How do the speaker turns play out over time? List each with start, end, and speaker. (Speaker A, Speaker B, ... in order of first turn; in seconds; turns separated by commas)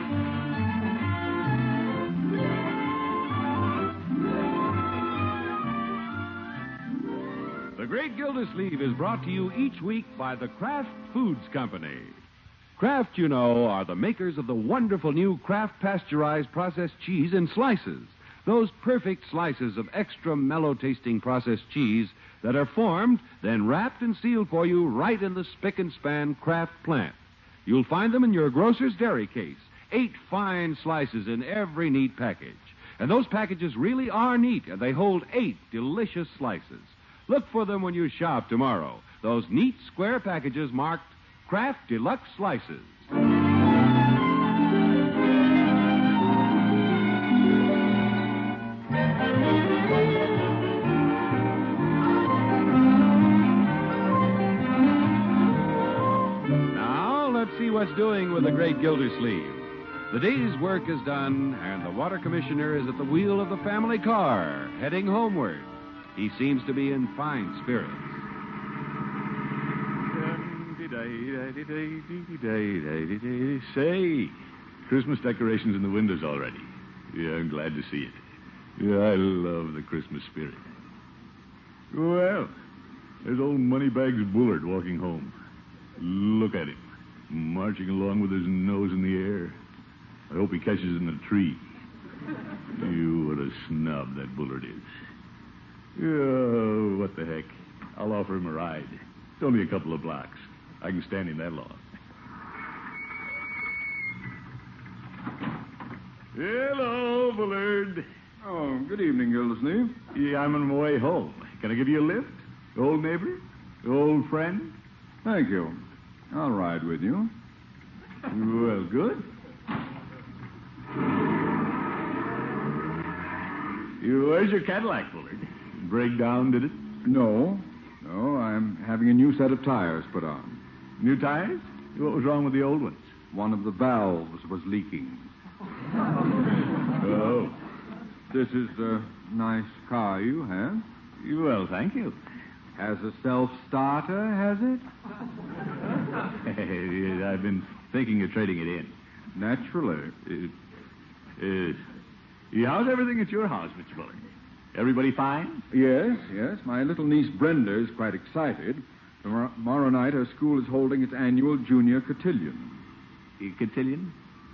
Speaker A: 7.7-12.2, Speaker A: 12.8-43.1, Speaker A: 56.7-68.2, Speaker B: 70.1-78.2, Speaker B: 78.8-80.7, Speaker B: 81.9-82.5, Speaker B: 83.2-85.3, Speaker B: 86.0-89.6, Speaker B: 90.3-91.6, Speaker B: 92.7-94.9, Speaker B: 96.0-101.8, Speaker B: 106.3-108.0, Speaker C: 108.4-110.0, Speaker B: 110.1-114.7, Speaker C: 115.2-115.8, Speaker C: 116.3-117.3, Speaker B: 118.3-119.3, Speaker B: 124.0-126.8, Speaker C: 127.0-130.6, Speaker B: 131.0-133.1, Speaker C: 133.3-135.3, Speaker B: 137.0-137.6, Speaker C: 138.3-140.8, Speaker B: 141.2-142.2, Speaker C: 142.8-144.8, Speaker B: 146.2-148.9, Speaker C: 149.3-150.1, Speaker B: 150.2-150.5, Speaker B: 151.4-151.8, Speaker B: 152.5-154.2, Speaker B: 154.7-155.6, Speaker C: 155.7-162.8, Speaker B: 163.4-164.1